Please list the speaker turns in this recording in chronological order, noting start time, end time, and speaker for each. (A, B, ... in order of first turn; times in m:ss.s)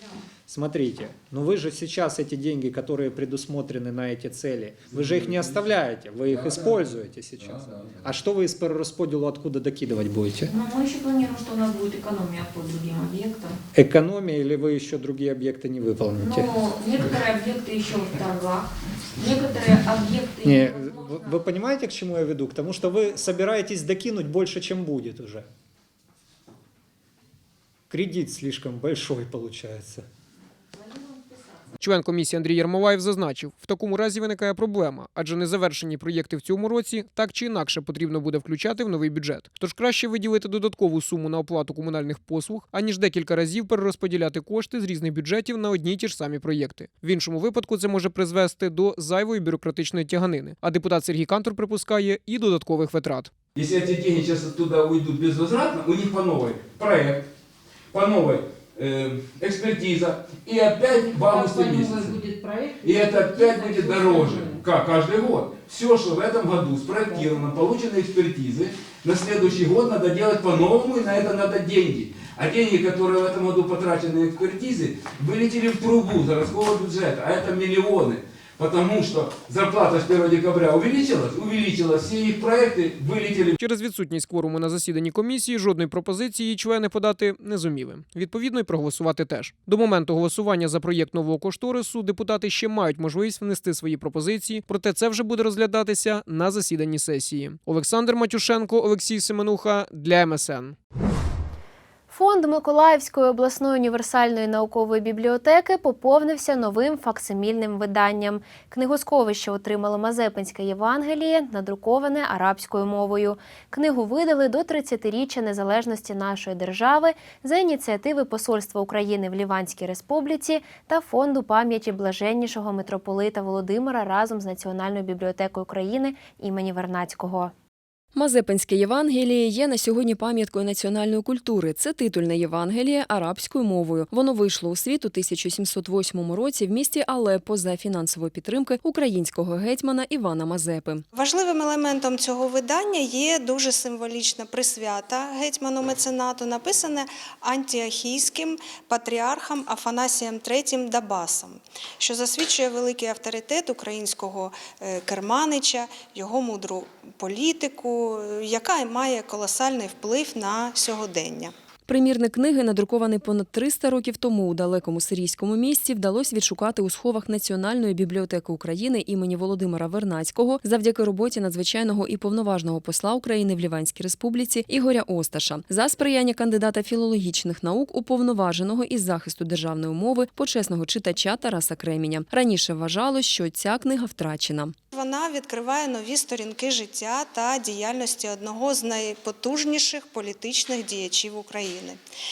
0:00.5-0:10.5 A
0:10.5-0:13.6 B
0:13.7-0:16.5 A
0:16.2-0:21.4 B
0:20.4-0:25.5 A
0:27.9-0:30.0 A
0:31.8-0:53.4 C
0:53.5-0:57.3 D
0:57.9-1:23.5 D
1:23.6-1:40.8 C
1:42.1-2:07.5 E
2:08.1-2:21.0 F
2:21.1-2:41.5 G
2:41.9-3:04.7 F
3:04.9-3:12.0 G